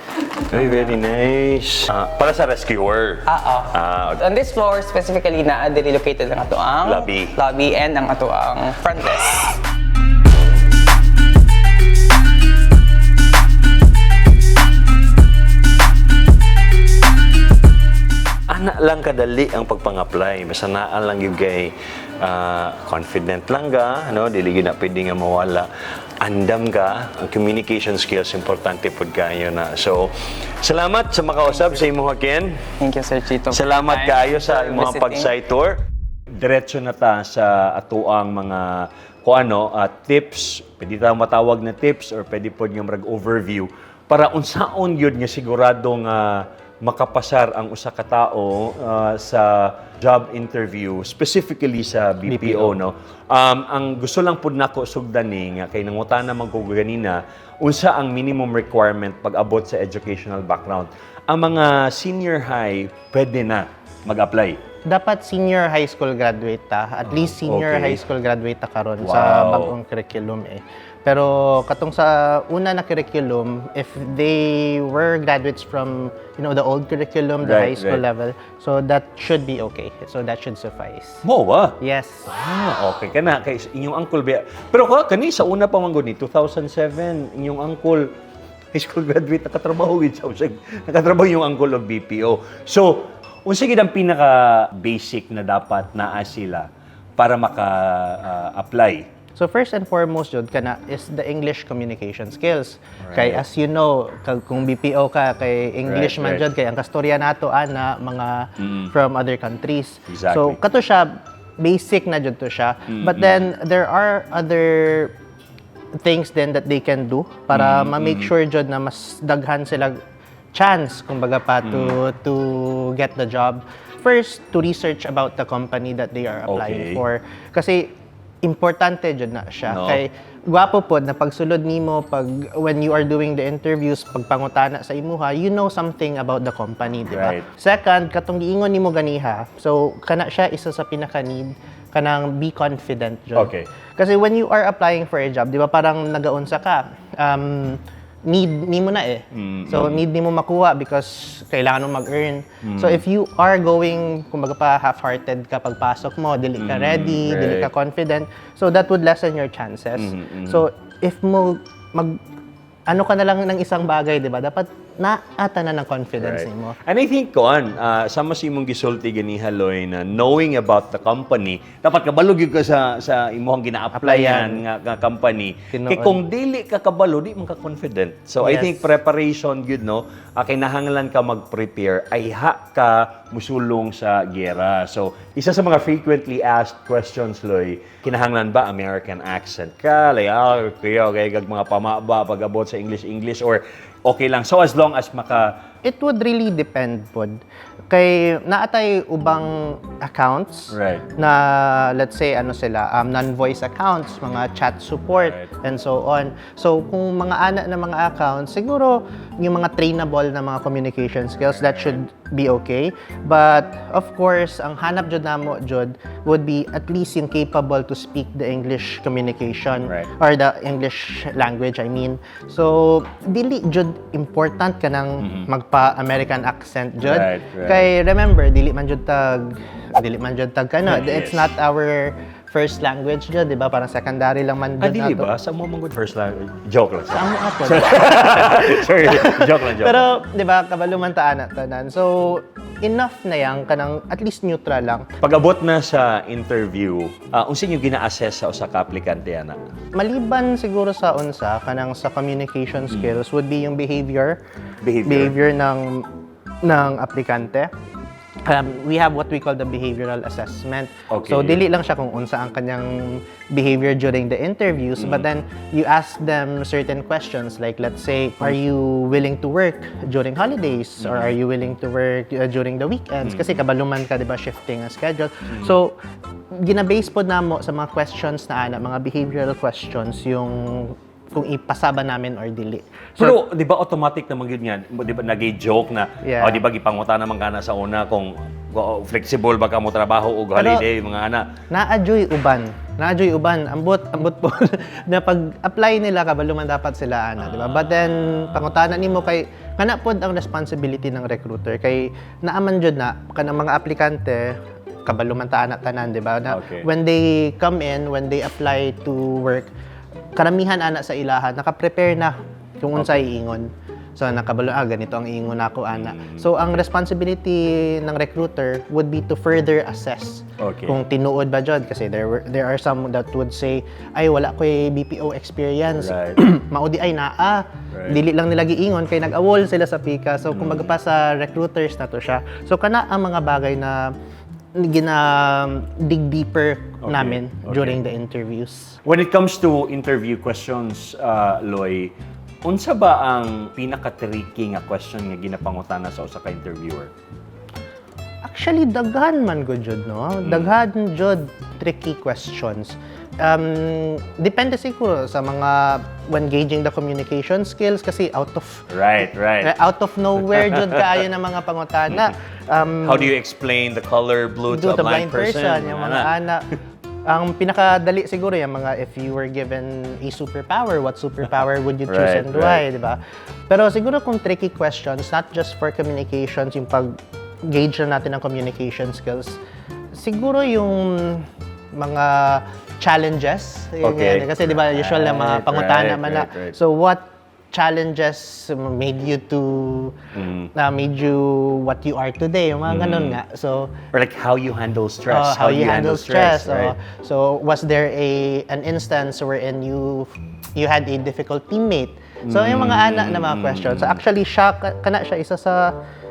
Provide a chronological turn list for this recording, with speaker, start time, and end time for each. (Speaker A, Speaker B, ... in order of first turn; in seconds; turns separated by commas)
Speaker A: 0.5-4.2, Speaker B: 0.6-0.9, Speaker B: 3.3-9.5, Speaker A: 6.8-7.3, Speaker A: 18.5-21.7, Speaker A: 22.2-25.7, Speaker A: 26.2-30.1, Speaker A: 30.6-32.6, Speaker B: 31.5-31.8, Speaker B: 32.8-35.3, Speaker A: 33.5-35.8, Speaker A: 36.3-64.6, Speaker C: 52.2-52.8, Speaker C: 64.9-81.2, Speaker A: 67.0-68.0, Speaker A: 69.0-69.7, Speaker A: 77.4-78.0, Speaker A: 81.2-81.8, Speaker C: 81.8-82.3, Speaker A: 82.3-88.1, Speaker A: 88.7-99.1, Speaker C: 99.3-115.2, Speaker A: 103.0-103.4, Speaker A: 105.8-106.5, Speaker A: 108.6-108.9, Speaker A: 110.1-110.6, Speaker A: 112.9-113.4, Speaker C: 116.0-120.0, Speaker A: 117.5-118.3, Speaker C: 120.5-162.2, Speaker A: 121.6-122.0, Speaker A: 126.5-127.0, Speaker A: 129.7-130.0, Speaker A: 137.1-137.5, Speaker A: 143.3-143.7, Speaker A: 149.3-150.0, Speaker A: 152.6-153.0, Speaker A: 156.6-157.7, Speaker A: 160.0-160.7, Speaker C: 162.9-166.8, Speaker A: 166.2-195.6, Speaker C: 173.9-174.6, Speaker C: 175.7-176.2, Speaker C: 178.4-178.8, Speaker C: 195.8-235.3, Speaker A: 200.7-201.1, Speaker A: 205.2-205.5, Speaker A: 211.4-212.0, Speaker A: 225.2-225.5, Speaker A: 227.0-227.9, Speaker A: 230.9-231.5, Speaker A: 234.8-240.1, Speaker C: 237.1-245.1, Speaker A: 245.2-249.6, Speaker C: 249.9-254.4, Speaker A: 254.8-255.3, Speaker C: 255.1-256.1, Speaker C: 256.6-257.7, Speaker C: 258.4-276.0, Speaker A: 261.1-261.6, Speaker A: 265.0-265.2, Speaker A: 271.0-271.3, Speaker A: 273.2-273.6, Speaker A: 275.5-275.8, Speaker C: 276.5-283.4, Speaker A: 283.2-291.5, Speaker C: 286.2-286.6, Speaker C: 290.6-290.9, Speaker C: 291.7-304.5, Speaker A: 297.4-298.1, Speaker C: 305.1-309.7, Speaker A: 306.5-306.9, Speaker C: 310.4-334.1, Speaker A: 315.9-316.5, Speaker A: 320.6-320.9, Speaker A: 326.0-326.4, Speaker A: 327.9-328.2, Speaker A: 330.5-330.9, Speaker C: 334.8-338.9, Speaker A: 337.0-338.0, Speaker A: 339.0-342.1, Speaker A: 342.6-347.1, Speaker C: 348.4-358.8, Speaker A: 358.9-359.8, Speaker C: 359.6-363.3, Speaker A: 360.4-361.0, Speaker A: 363.0-366.3, Speaker C: 364.7-366.7, Speaker C: 367.3-379.6, Speaker A: 372.1-372.8, Speaker C: 380.1-390.1, Speaker A: 384.0-386.8, Speaker A: 390.3-390.7, Speaker C: 390.7-393.9, Speaker A: 392.9-393.4, Speaker A: 394.1-396.9, Speaker C: 395.3-405.9, Speaker A: 402.4-404.2